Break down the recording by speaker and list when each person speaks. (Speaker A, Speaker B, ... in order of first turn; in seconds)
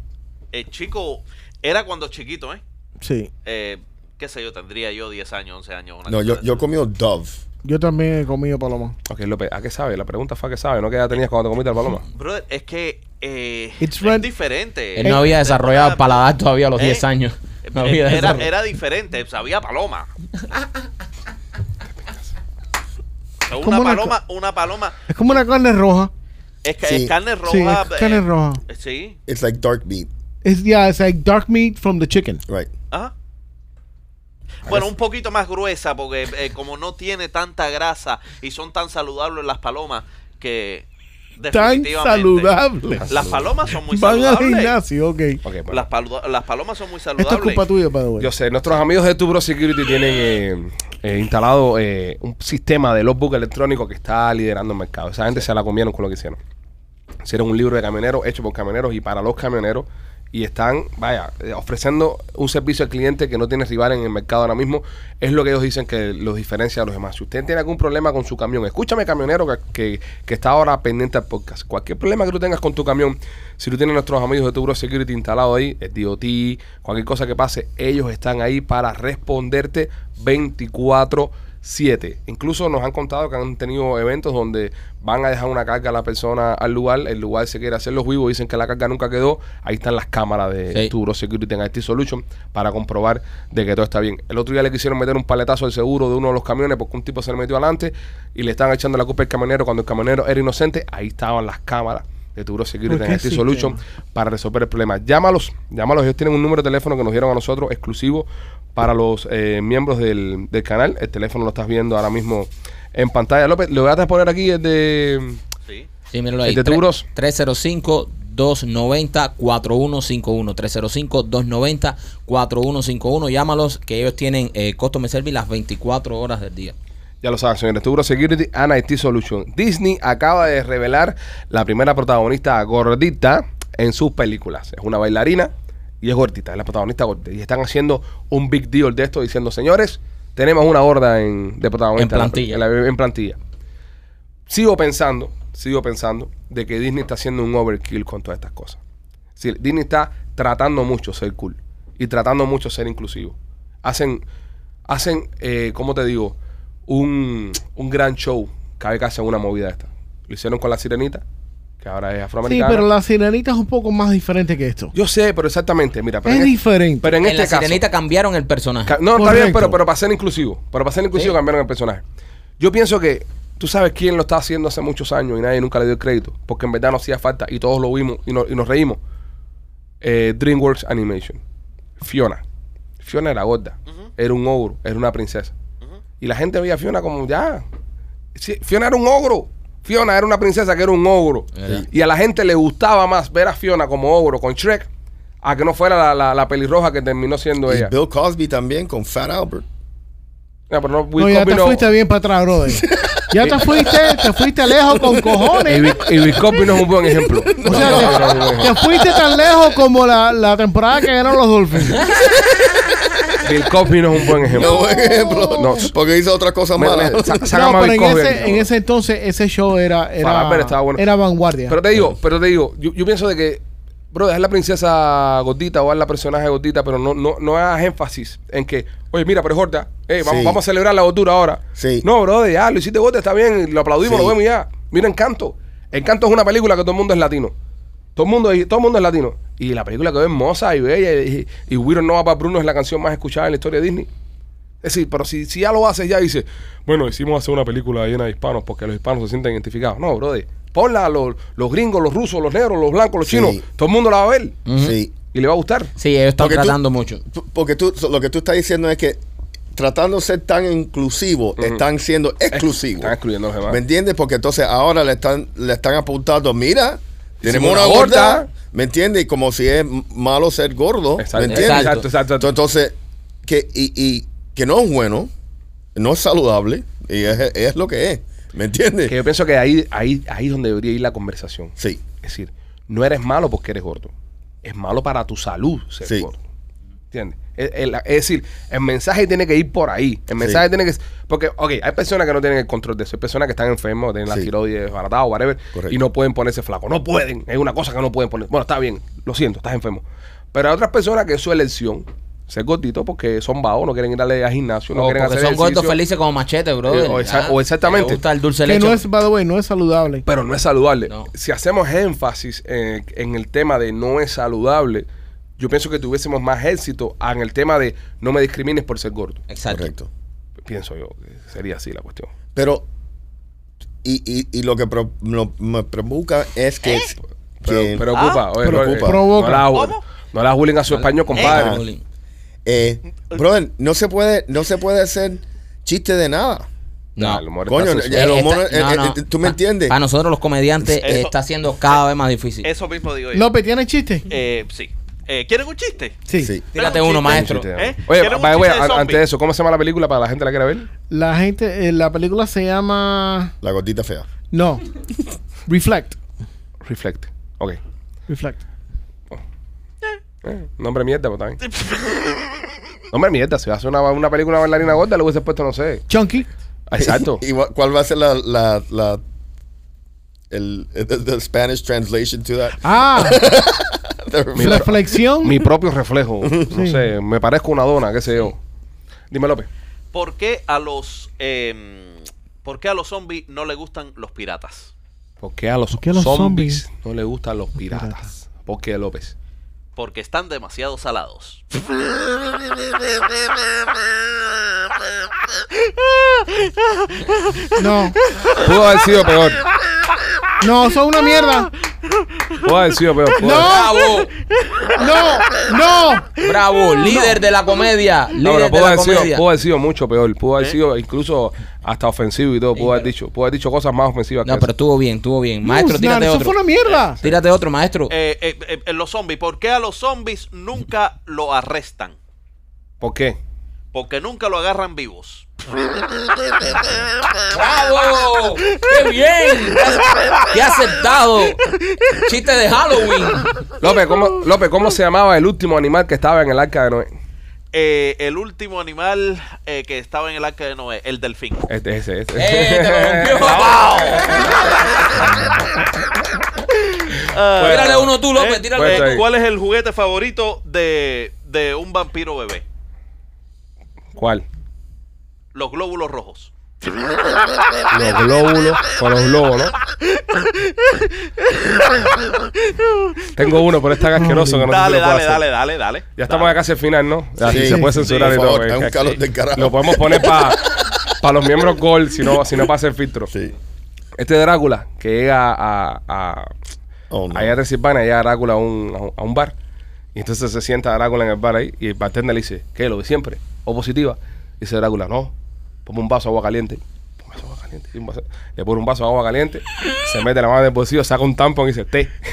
Speaker A: 0.5-2.6, 3.5-6.5, 12.2-16.2, 16.8-17.0, 17.7-20.1, 23.4-25.1, 26.6-29.2, 34.7-40.9, 41.4-44.8, 45.7-47.6, 328.1-328.5, 329.7-330.0, 341.0-341.3, 342.6-343.5, 344.3-346.2, 346.7-349.2, 380.1-384.9, 390.0-391.6, 395.8-397.7, 398.3-399.1, 418.1-422.2, 423.9-425.5, 426.6-427.0, 437.7-441.7, 443.4-444.6, 447.1-452.6, 455.5-456.5, 460.4-461.0, 461.5-462.5, 464.7-466.6, 467.9-468.4
Speaker B: 3.0-3.3, 7.7-9.0, 13.8-14.3, 23.6-24.2, 25.1-26.1, 27.5-28.6, 30.4-32.4, 41.5-43.1, 43.7-45.4, 47.2-48.3, 102.9-103.8, 162.4-164.9, 166.2-167.1, 169.2-169.8, 201.2-206.0, 207.6-212.1, 217.5-221.8, 308.7-310.3, 328.6-329.7, 343.3-344.3, 346.3-346.5, 351.1-353.5, 354.5-354.9, 355.7-356.2, 358.3-358.6, 366.1-366.5, 372.8-373.4, 374.6-375.6, 376.7-377.1, 385.9-386.8, 397.7-398.2, 400.6-401.7, 403.3-404.1, 404.9-406.4, 407.1-407.4, 415.6-417.2, 464.2-464.7, 467.5-468.0
Speaker C: 6.1-7.4, 26.8-27.1, 29.3-30.1, 197.6-199.7, 202.7-209.6, 212.1-213.0, 214.2-217.5, 230.2-230.6, 231.8-232.1, 234.0-234.4, 253.2-253.6, 254.8-255.1, 256.4-259.2, 259.7-263.1, 263.7-275.3, 275.9-279.2, 281.8-282.1, 290.4-290.6, 294.3-294.5, 319.7-320.1, 322.6-322.9, 324.0-328.1, 328.7-329.1, 331.4-331.8, 332.6-336.7, 337.7-340.0, 340.9-341.2, 346.4-346.6, 353.6-354.3, 366.9-369.2, 370.5-375.2, 376.4-376.7, 467.4-470.9, 477.1-477.6
Speaker D: 9.1-12.0, 42.9-43.6, 45.4-45.8, 48.2-56.4, 57.2-115.4, 116.5-117.0, 127.2-135.5, 136.0-143.4, 144.5-148.8, 149.4-154.2, 154.9-161.2, 161.8-162.9, 164.9-167.8, 168.9-172.0, 172.6-179.0, 180.0-181.4, 182.0-182.4, 183.0-185.5, 186.2-187.6, 188.4-194.9, 195.4-197.9, 200.7-201.9, 203.4-203.8, 205.6-208.9, 213.4-214.8, 215.5-215.9, 216.8-218.7, 220.2-221.1, 221.7-223.6, 224.1-237.5, 238.2-244.1, 244.8-254.6, 255.3-255.9, 262.5-263.8, 267.4-268.5, 271.2-272.5, 279.1-284.1, 284.6-286.4, 287.1-306.0, 306.9-308.2, 310.3-315.1, 315.6-319.4, 320.6-322.3, 327.6-331.8, 337.2-338.4, 347.2-350.9, 356.8-357.8, 360.4-361.6, 363.1-366.1, 366.9-367.4, 374.6-378.6, 379.3-379.7, 385.4-389.4, 398.5-399.6, 402.6-403.7, 408.4-414.7, 423.0-423.4, 433.8-437.1, 441.7-444.4, 447.6-448.1, 448.8-449.2, 454.2-454.4, 457.9-459.8, 463.4-465.4, 466.2-473.3, 474.2-476.5, 477.3-479.6, 480.1-485.3, 485.9-492.2
Speaker E: 15.0-18.6, 116.1-126.8, 142.0-142.6, 167.2-169.0, 191.6-191.9, 254.7-255.0, 256.0-257.2, 271.4-272.0, 304.9-309.1, 319.5-319.9, 330.9-332.0, 337.2-337.4, 338.1-342.7, 346.7-347.7, 403.6-404.3, 406.4-409.4, 412.8-413.1, 414.4-416.6, 417.2-418.1, 427.5-431.6, 432.1-433.6, 442.4-445.0, 447.6-449.2